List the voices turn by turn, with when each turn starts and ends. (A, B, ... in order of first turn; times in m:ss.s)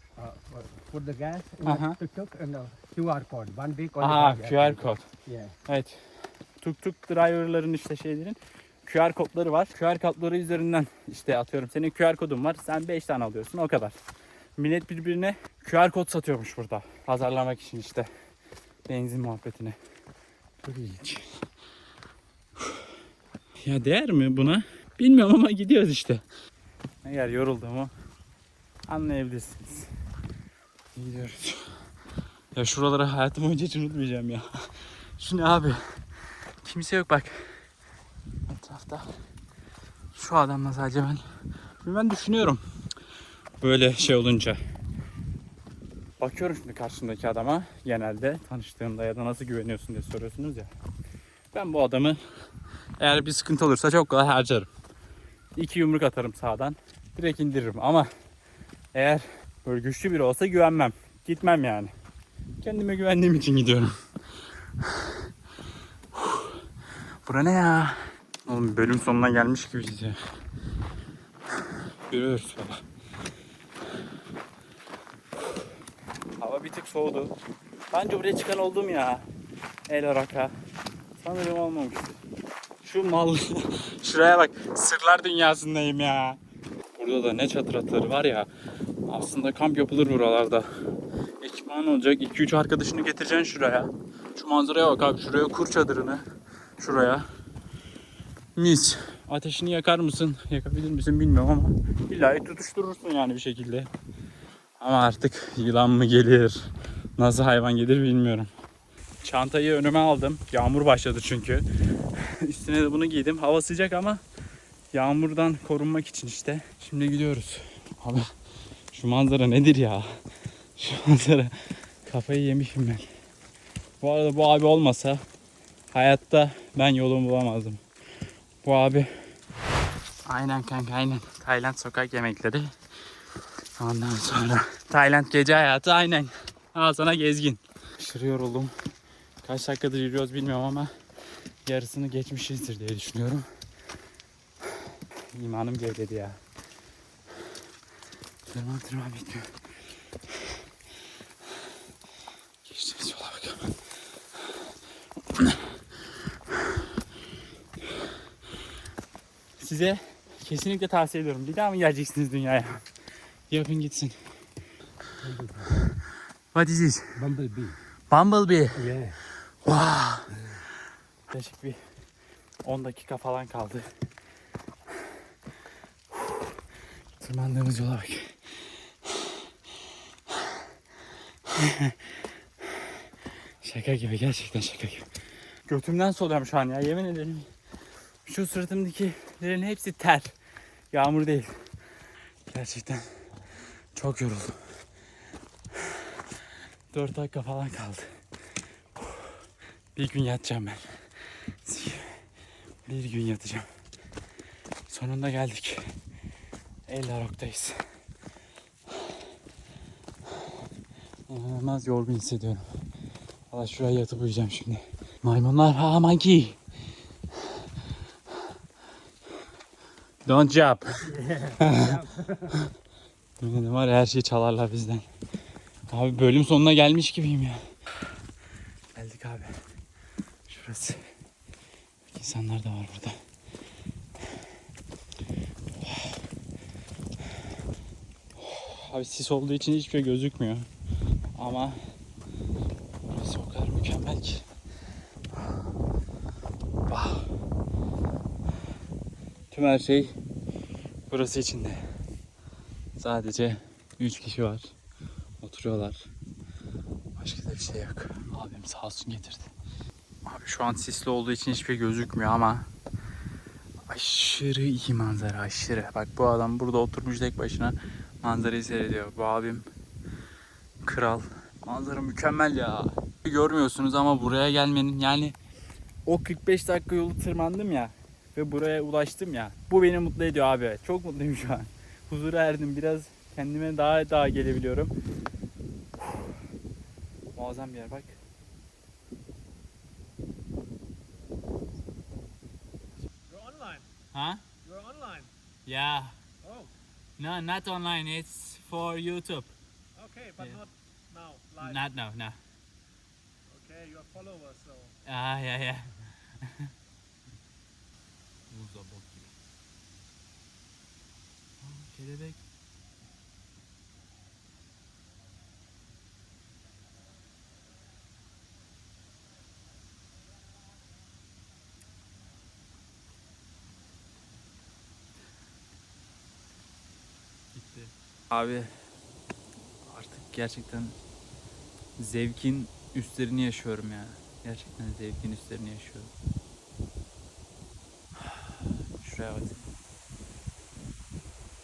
0:00.2-0:05.6 A
0:01.6-0:02.0 B
0:04.0-0:05.0 B
0:05.7-0:06.0 B
0:06.6-0:14.0 B
0:14.6-0:18.1 B
0:18.9-0:19.8 B
0:20.6-0:21.2 B
0:23.6-0:26.2 B
0:27.0-0:27.9 B
0:28.9-0:29.9 B
0:31.0-0:31.6 B
0:32.6-0:34.5 B
0:35.2-0:35.8 B
0:36.6-0:37.4 B
0:38.5-0:39.1 B
0:40.2-0:41.2 B
0:41.8-0:42.6 B
0:43.6-0:44.6 B
0:46.2-0:50.7 B
0:51.5-0:52.2 B
0:53.0-0:54.7 B
0:55.6-0:58.1 B
0:58.9-1:01.9 B
1:02.6-1:04.0 B
1:06.1-1:06.6 B
1:07.3-1:10.2 B
1:12.1-1:12.8 B
1:16.4-1:17.3 B
1:17.9-1:19.2 B
1:19.9-1:20.5 B
1:21.2-1:22.2 B
1:22.8-1:26.4 B
1:27.0-1:28.5 B
1:29.1-1:30.7 B
1:31.4-1:36.2 B
1:36.8-1:37.2 B
1:38.6-1:43.9 B
1:44.8-1:48.5 B
1:49.2-1:51.7 B
1:52.2-1:54.2 B
1:54.9-1:58.3 B
1:58.9-2:00.1 B
2:00.8-2:03.1 B
2:04.0-2:05.2 B
2:05.9-2:07.8 B
2:08.6-2:09.1 B
2:10.3-2:12.7 B
2:13.8-2:18.7 B
2:19.4-2:20.9 B
2:21.7-2:23.5 B
2:25.3-2:26.4 B
2:28.5-2:29.5 B
2:32.6-2:33.7 B
2:35.3-2:35.6 B
2:39.6-2:42.8 B
2:43.5-2:44.2 B
2:45.2-2:45.8 A
2:46.5-2:47.0 B
2:47.2-2:47.8 A
2:48.1-2:48.9 B
2:48.8-2:49.2 A
2:49.6-2:50.3 B
2:51.3-2:51.8 B
2:52.6-2:53.9 B
2:57.2-2:58.4 B
3:01.6-3:02.0 B
3:03.6-3:05.1 B
3:05.7-3:07.5 B
3:08.2-3:10.3 B
3:10.9-3:11.5 B
3:12.5-3:13.1 B
3:14.0-3:14.6 B
3:16.9-3:18.1 B
3:20.0-3:20.8 B
3:21.6-3:22.1 B
3:22.9-3:23.7 B
3:24.9-3:25.9 B
3:26.9-3:27.8 B
3:31.3-3:32.6 B
3:33.5-3:36.6 B
3:40.2-3:41.0 B
3:41.0-3:42.6 A
3:41.6-3:42.0 B
3:43.4-3:45.1 B
3:45.9-3:47.6 B
3:49.0-3:49.6 B
3:50.5-3:51.0 B
3:52.1-3:53.2 B
3:58.4-4:00.7 B
4:01.4-4:01.8 B
4:03.1-4:04.5 B
4:06.9-4:07.3 B
4:09.5-4:10.2 B
4:11.1-4:11.8 B
4:13.0-4:14.7 B
4:15.4-4:16.1 B
4:17.2-4:19.5 B
4:20.3-4:22.7 B
4:23.9-4:29.7 B
4:30.8-4:35.4 B
4:36.0-4:44.9 B
4:47.3-4:48.2 B
4:53.3-4:53.9 C
4:54.1-4:54.4 B
4:54.6-4:55.3 C
4:55.7-4:56.2 B
4:56.4-4:56.7 C
4:57.2-4:59.5 B
5:00.0-5:01.8 C
5:01.6-5:02.4 B
5:03.5-5:04.9 C
5:05.1-5:05.9 B
5:08.5-5:09.3 B
5:11.6-5:12.4 B
5:27.5-5:28.7 B
5:29.9-5:31.0 B
5:32.0-5:36.1 B
5:38.2-5:39.7 B